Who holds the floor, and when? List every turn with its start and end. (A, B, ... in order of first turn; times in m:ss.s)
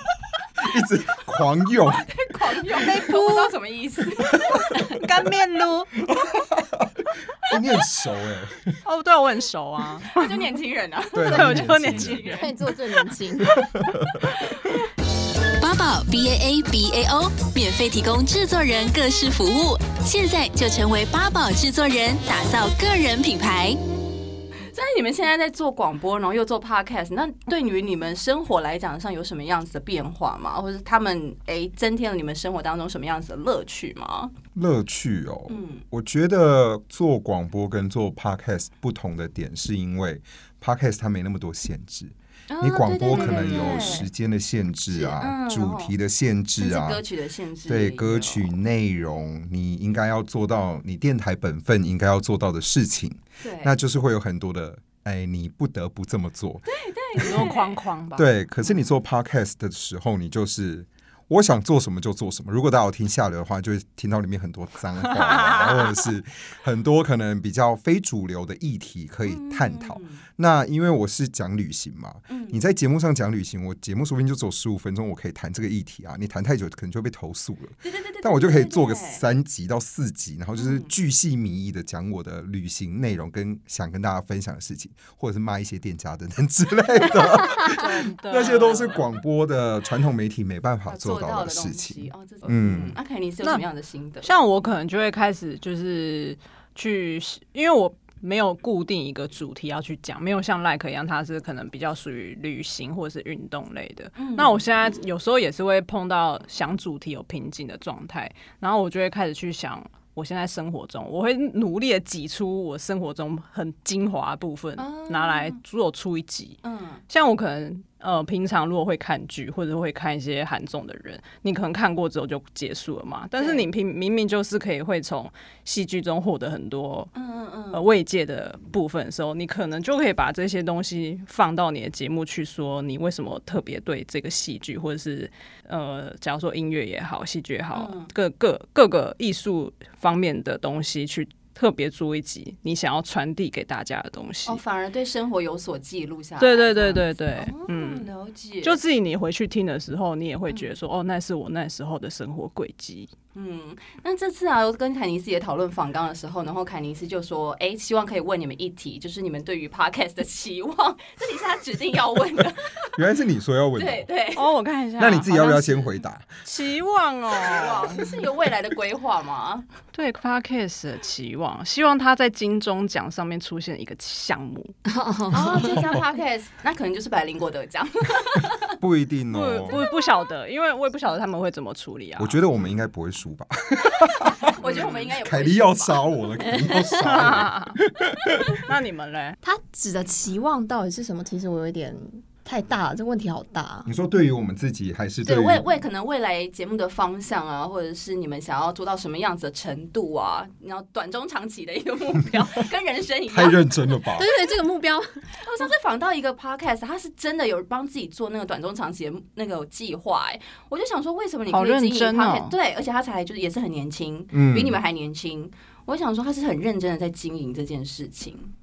0:00.6-0:02.1 A
0:01.9-0:04.7 B
0:02.9-0:03.5 C
0:04.8-0:05.9 C
0:06.0-0:08.8 A
0:08.8-0:10.4 C
0:10.1-0:12.5 B
0:11.1-0:12.4 A
0:11.2-0:12.4 C
0:12.3-0:13.6 D
0:13.5-0:14.3 A
0:14.3-0:14.7 B
0:15.6-0:23.8 E
0:24.6-0:34.3 B
0:34.5-0:47.0 A
0:35.5-0:35.8 B
0:42.5-0:44.1 B
0:43.1-0:43.8 C
0:44.9-0:45.9 B
0:46.6-0:48.6 B
0:47.6-0:56.7 A
0:53.4-0:53.7 B
0:56.6-0:57.8 B
0:57.2-0:58.3 C
0:57.2-0:57.5 A
0:58.1-1:33.0 A
1:05.1-1:06.0 C
1:09.2-1:10.2 B
1:12.3-1:12.6 B
1:17.8-1:19.2 B
1:20.6-1:20.9 B
1:27.6-1:29.1 C
1:30.9-1:34.3 B
1:34.2-2:07.1 C
1:44.2-1:44.6 B
1:54.8-1:55.6 B
1:56.6-1:57.0 B
2:03.4-2:03.7 B
2:07.1-2:07.8 B
2:07.7-2:24.6 C
2:17.7-2:18.1 B
2:24.4-2:28.8 B
2:26.4-2:28.1 C
2:28.6-2:33.1 C
2:33.3-2:42.9 B
2:42.9-2:44.1 A
2:43.8-2:44.5 B
2:44.4-2:45.9 C
2:45.0-2:46.3 A
2:46.4-2:48.0 C
2:47.4-2:49.6 B
2:49.9-2:54.7 C
2:54.8-2:55.8 D
2:55.3-2:58.7 B
2:58.8-2:59.8 A
2:59.3-3:02.4 C
3:02.2-3:08.6 A
3:04.6-3:06.2 B
3:04.7-3:05.0 C
3:06.8-3:07.8 C
3:08.4-3:09.4 C
3:09.4-3:13.9 D
3:13.8-3:15.6 A
3:15.2-3:24.0 B
3:23.3-3:24.3 A
3:24.2-3:25.3 D
3:25.4-3:38.5 B
3:31.5-3:32.5 C
3:34.3-3:34.8 A